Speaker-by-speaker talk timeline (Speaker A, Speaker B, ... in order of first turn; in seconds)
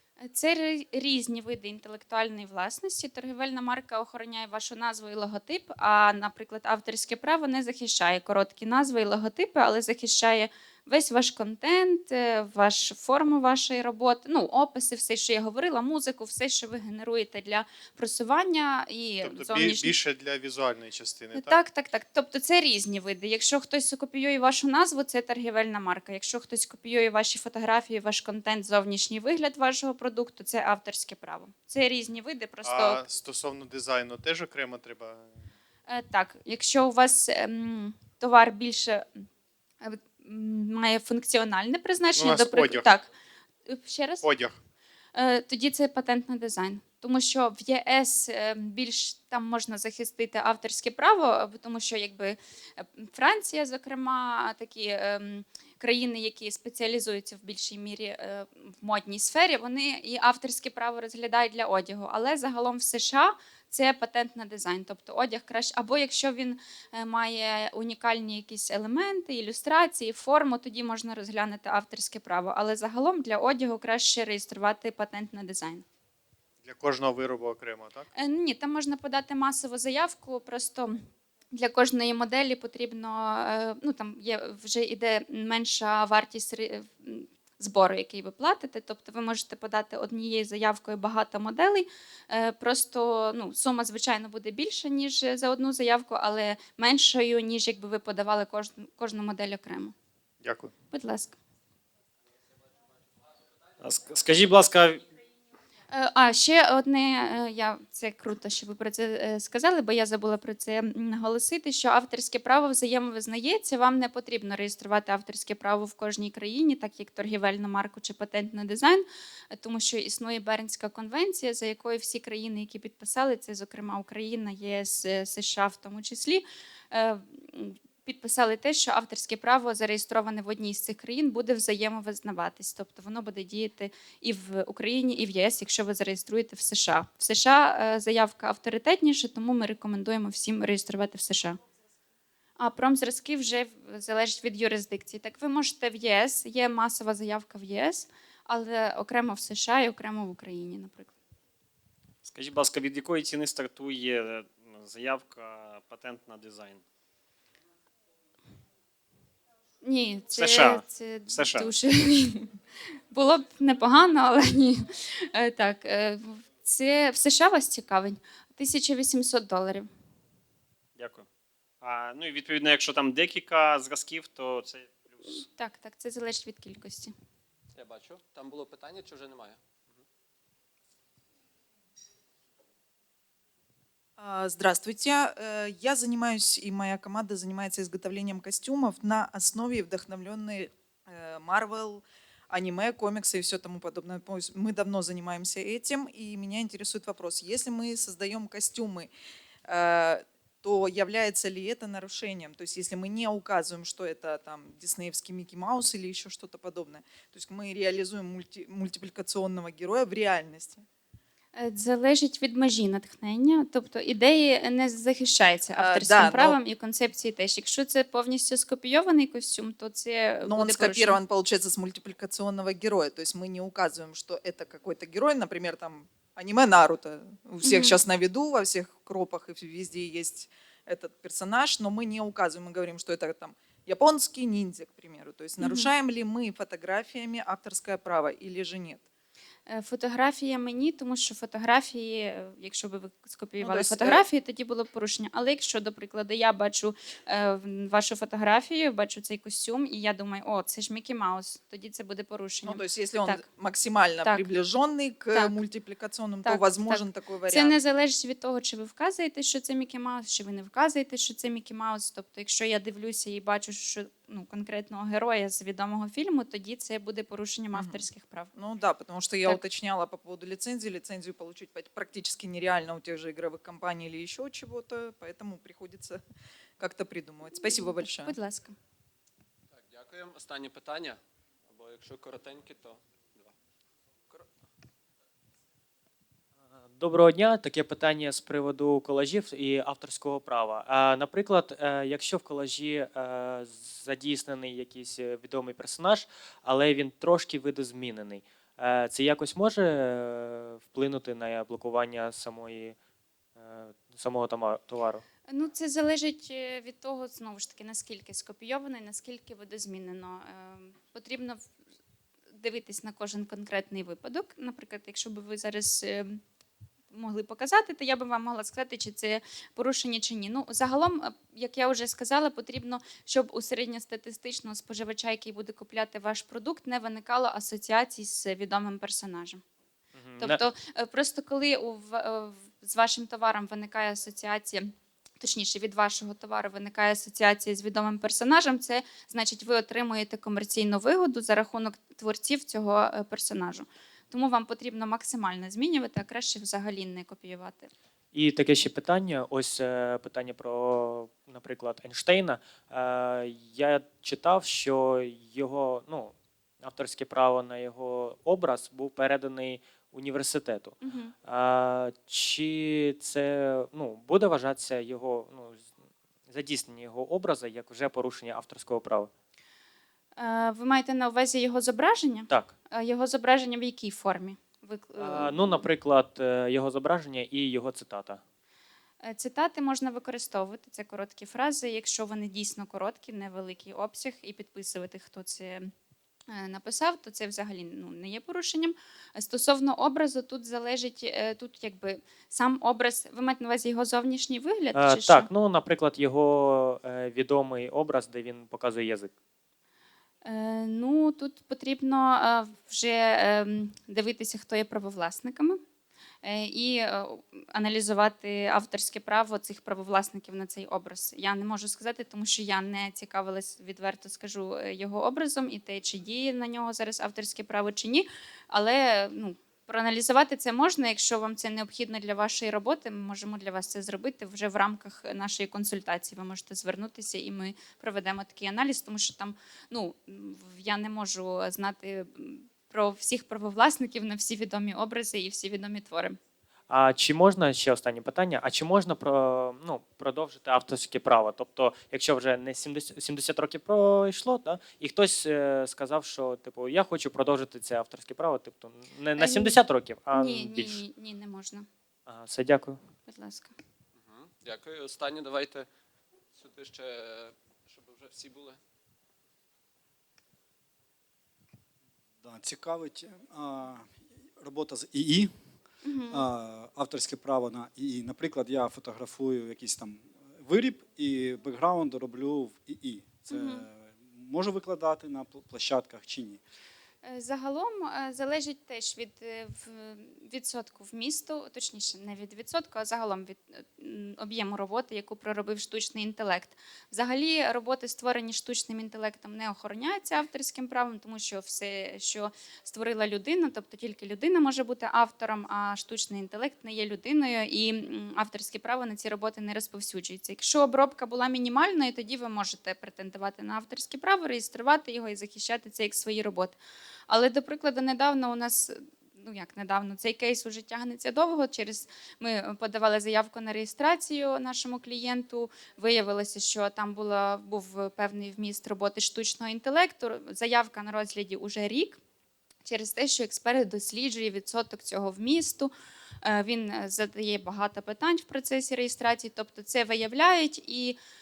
Speaker A: 0.2-19.9, 21.3-33.0, 35.9-39.2, 39.8-43.1, 43.7-44.2, 45.1-75.8, 78.2-81.0, 81.5-99.9, 100.9-101.4, 105.9-141.6, 142.6-151.1, 159.8-162.5, 163.1-169.9, 175.3-177.1, 211.6-221.2, 227.6-228.0, 235.6-235.9, 239.7-253.4, 256.4-268.5, 277.7-278.8, 305.5-311.6, 312.5-316.4, 317.1-329.6, 330.4-347.9, 361.0-361.3, 370.4-375.8, 379.2-385.9, 386.5-395.5, 400.4-405.8, 406.4-436.4, 449.4-449.8, 450.3-451.9, 453.3-453.7, 466.0-466.4, 473.5-473.9, 477.2-506.8, 507.3-522.2, 522.8-525.9, 526.4-531.2
Speaker B: 19.2-21.6, 32.6-35.3, 42.1-42.9, 44.2-44.6, 76.6-78.1, 100.4-100.7
Speaker C: 103.8-105.0, 152.2-156.8, 160.3-161.7, 170.9-171.2, 171.8-175.4
Speaker D: 177.7-180.0, 279.7-283.5, 454.1-455.9, 456.5-458.8
Speaker E: 184.2-199.1, 199.6-210.8, 215.8-216.6, 220.4-239.0, 243.6-244.2, 252.6-257.8, 267.7-276.2, 276.8-278.4
Speaker F: 286.8-302.9, 303.6-305.2, 330.1-330.6, 348.3-365.8, 366.5-369.3, 375.2-378.4, 394.9-399.3, 436.9-451.0, 452.3-453.0
Speaker G: 462.4-465.5, 466.3-476.6